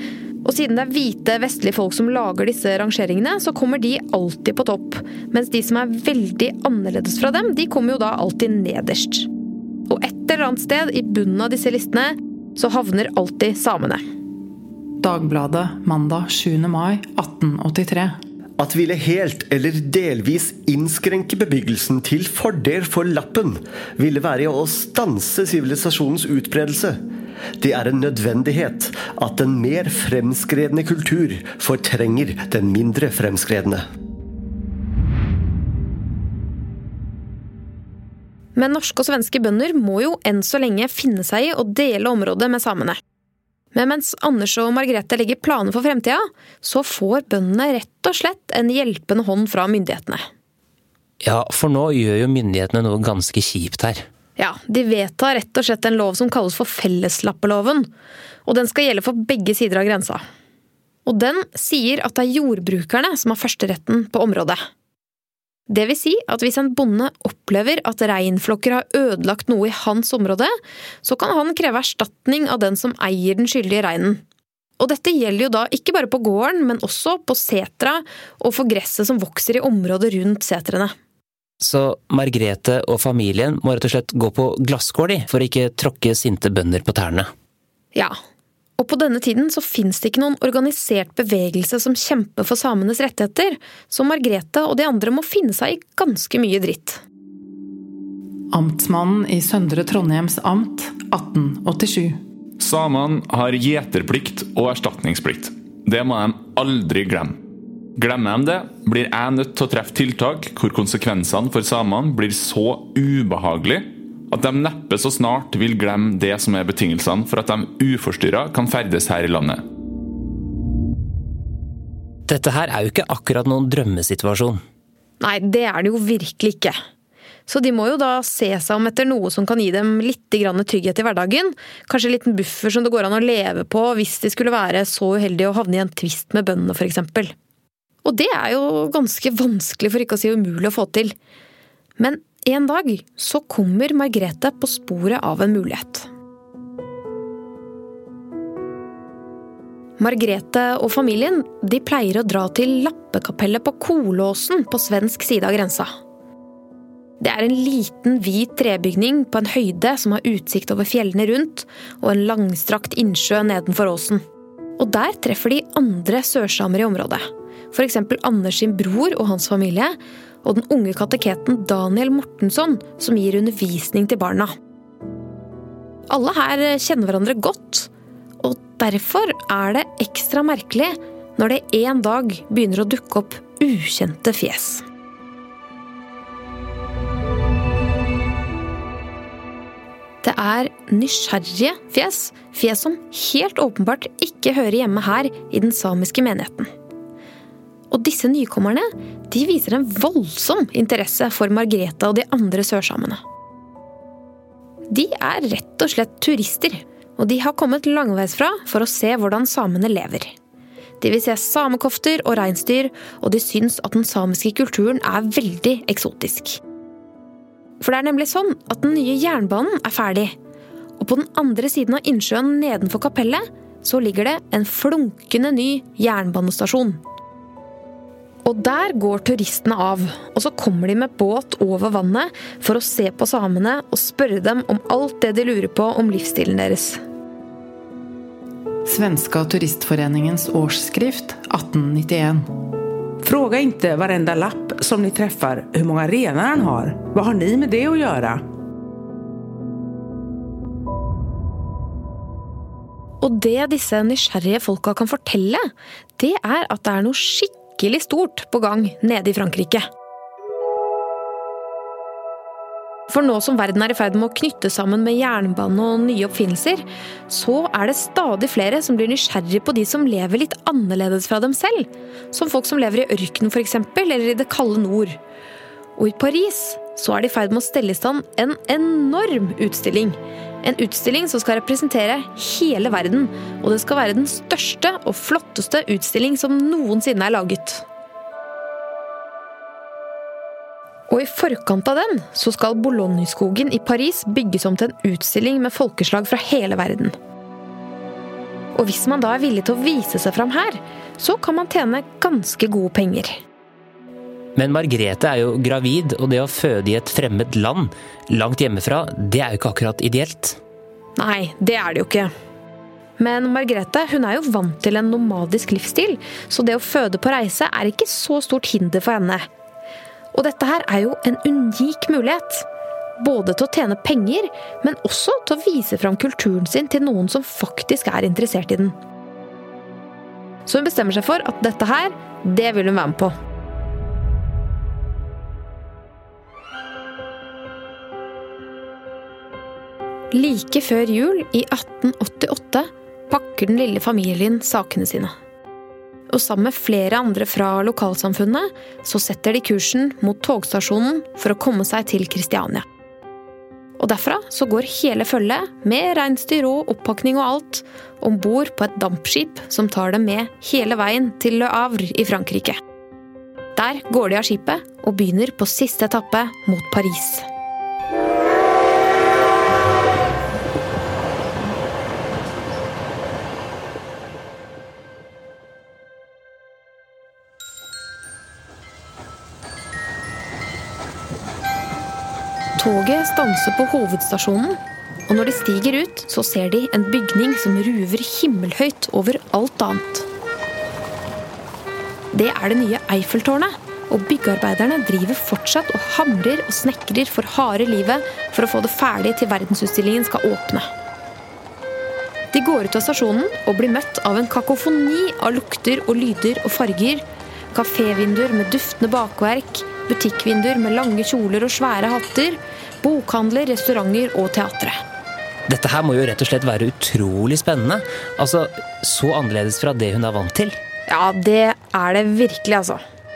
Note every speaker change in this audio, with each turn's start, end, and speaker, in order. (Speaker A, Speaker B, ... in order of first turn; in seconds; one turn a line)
Speaker A: 0.4-9.3
Speaker A: 9.9-14.0
Speaker B: 15.0-18.2
Speaker C: 18.6-27.0
Speaker C: 27.6-33.8
Speaker A: 38.6-43.0
Speaker A: 43.7-50.2
Speaker D: 51.2-54.0
Speaker A: 54.4-57.9
Speaker A: 58.5-60.2
Speaker A: 61.0-64.6
Speaker A: 65.7-74.2
Speaker A: 74.8-80.9
Speaker D: 81.6-87.3
Speaker A: 88.8-97.0
Speaker B: 98.5-102.2
Speaker E: 102.6-107.4
Speaker E: 108.0-119.6
Speaker D: 122.3-124.6
Speaker A: 125.2-126.8
Speaker A: 127.5-137.3
Speaker A: 138.0-141.2
Speaker A: 142.0-146.1
Speaker A: 150.0-155.9
Speaker A: 157.2-164.2
Speaker A: 164.8-174.5
Speaker A: 176.1-184.9
Speaker A: 190.2-196.7
Speaker A: 197.9-203.2
Speaker A: 204.9-210.3
Speaker A: 211.0-216.6
Speaker A: 217.8-220.3
Speaker A: 221.0-227.0
Speaker A: 228.4-237.0
Speaker B: 238.9-242.5
Speaker F: 243.2-248.4
Speaker A: 253.2-255.7
Speaker A: 256.2-259.9
Speaker A: 263.1-275.2
Speaker A: 276.0-287.8
Speaker A: 291.1-297.1
Speaker A: 298.8-303.4
Speaker D: 304.6-310.6
Speaker A: 311.2-312.3
Speaker A: 313.2-319.5
Speaker A: 320.3-322.7
Speaker A: 323.2-329.0
Speaker A: 330.6-333.3
Speaker A: 340.3-345.3
Speaker A: 346.3-352.9
Speaker A: 354.0-362.8
Speaker A: 363.8-367.5
Speaker A: 382.8-390.3
Speaker A: 392.3-400.9
Speaker A: 402.5-415.0
Speaker D: 415.7-420.8
Speaker A: 421.1-423.0